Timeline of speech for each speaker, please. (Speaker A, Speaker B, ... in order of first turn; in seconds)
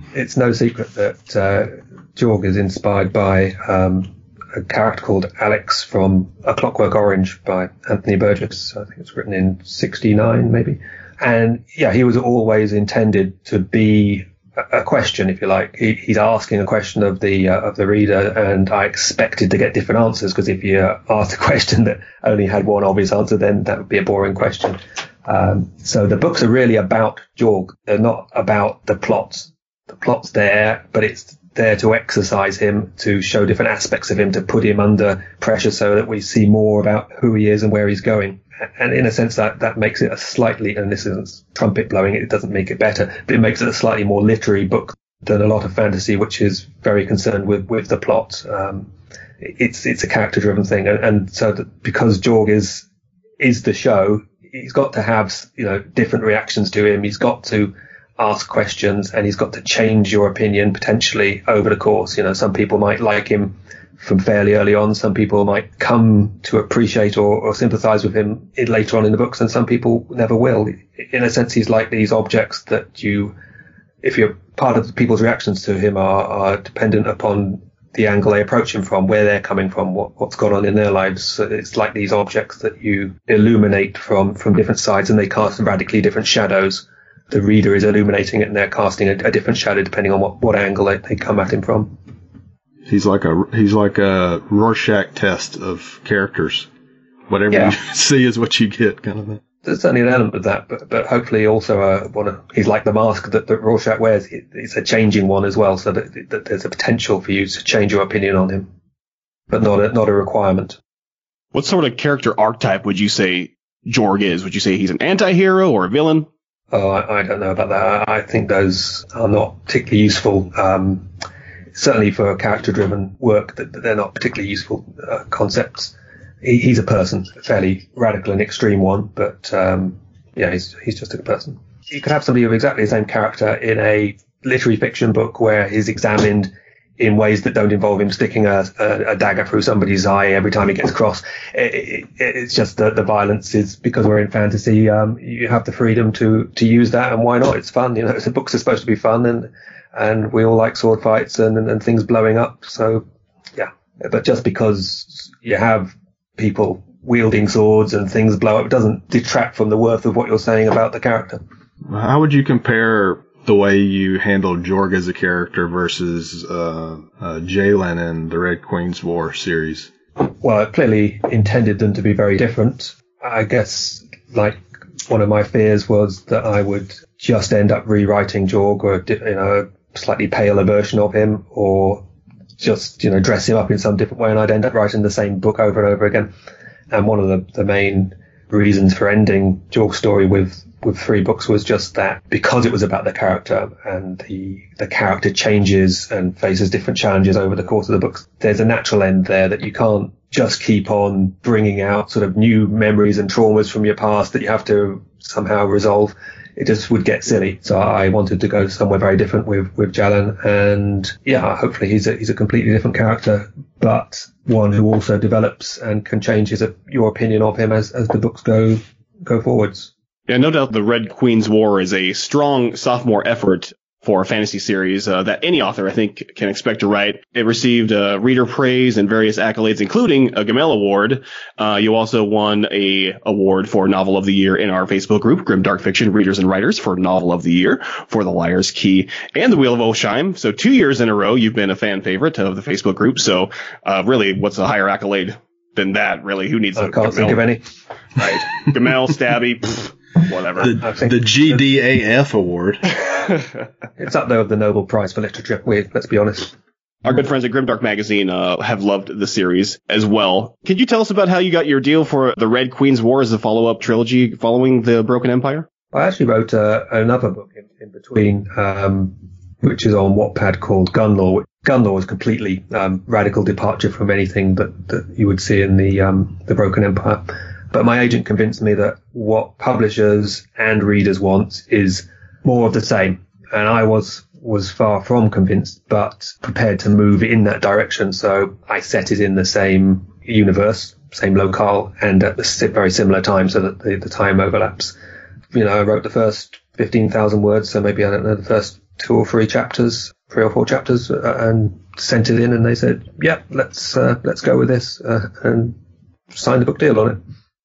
Speaker A: 0.1-48.9, 49.4-52.9, 53.4-73.3, 74.0-92.0, 97.5-97.8, 99.6-108.7, 109.5-110.8, 116.7-121.1, 121.8-153.0, 153.6-161.4, 170.3-182.1, 182.6-186.3, 186.9-219.9, 246.8-247.6, 250.8-251.6, 254.0-256.5, 265.9-294.9, 295.5-305.8, 306.3-307.2
Speaker B: 92.9-96.7, 97.3-99.4, 161.9-169.9, 250.6-253.0
Speaker C: 111.5-116.3, 220.3-247.4, 248.2-250.7, 257.1-265.7